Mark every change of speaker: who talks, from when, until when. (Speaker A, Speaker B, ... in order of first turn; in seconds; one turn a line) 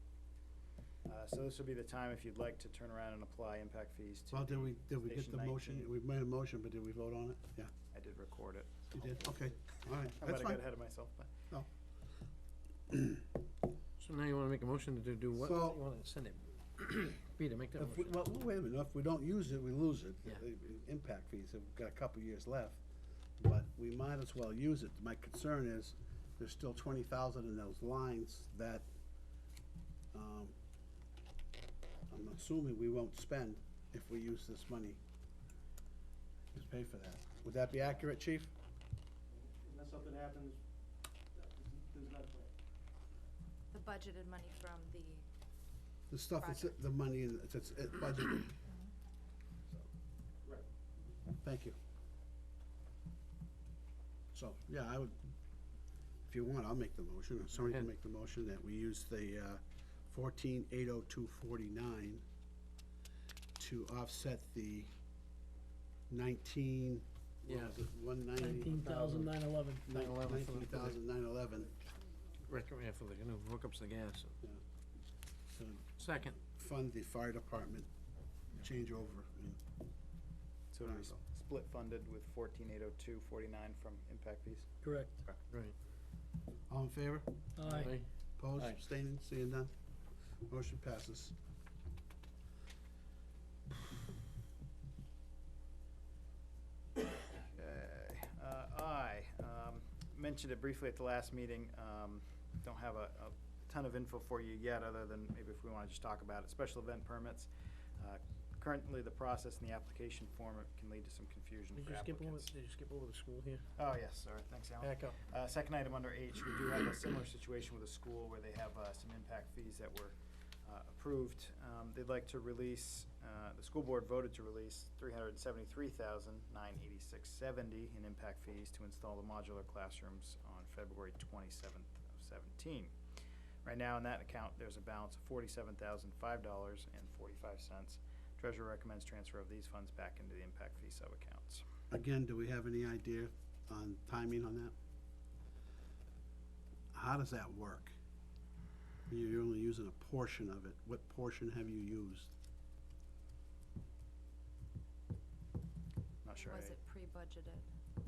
Speaker A: 1.0-5.9
Speaker B: 4.3-7.7
Speaker A: 7.9-9.5
Speaker B: 8.9-10.6
Speaker A: 10.1-11.3
Speaker B: 12.9-13.2
Speaker C: 14.0-18.2
Speaker B: 15.4-15.8
Speaker B: 17.8-22.8
Speaker B: 23.4-28.9
Speaker B: 30.1-30.6
Speaker B: 32.1-35.0
Speaker B: 36.5-38.5
Speaker D: 39.4-40.6
Speaker D: 41.4-42.5
Speaker E: 43.7-45.2
Speaker B: 46.1-48.5
Speaker E: 46.4-46.8
Speaker B: 51.4-51.8
Speaker B: 54.3-55.3
Speaker B: 56.3-62.2
Speaker B: 63.6-64.9
Speaker B: 66.1-69.0
Speaker C: 67.5-67.8
Speaker F: 68.4-69.9
Speaker C: 68.9-69.3
Speaker C: 69.9-71.0
Speaker B: 69.9-71.7
Speaker C: 72.5-74.3
Speaker B: 75.5-75.8
Speaker C: 76.0-76.3
Speaker B: 76.4-77.9
Speaker B: 78.5-79.6
Speaker A: 80.7-85.4
Speaker B: 80.8-81.1
Speaker F: 84.8-85.2
Speaker B: 86.7-89.7
Speaker F: 87.6-87.9
Speaker C: 87.6-88.0
Speaker B: 90.4-91.3
Speaker A: 97.4-112.5
Speaker C: 111.7-113.7
Speaker A: 113.8-120.1
Speaker C: 114.8-115.2
Speaker A: 120.7-132.9
Speaker A: 133.6-141.6
Speaker B: 141.9-144.7
Speaker B: 146.9-147.9
Speaker B: 149.1-152.3
Speaker A: 156.2-156.8
Speaker E: 156.3-157.7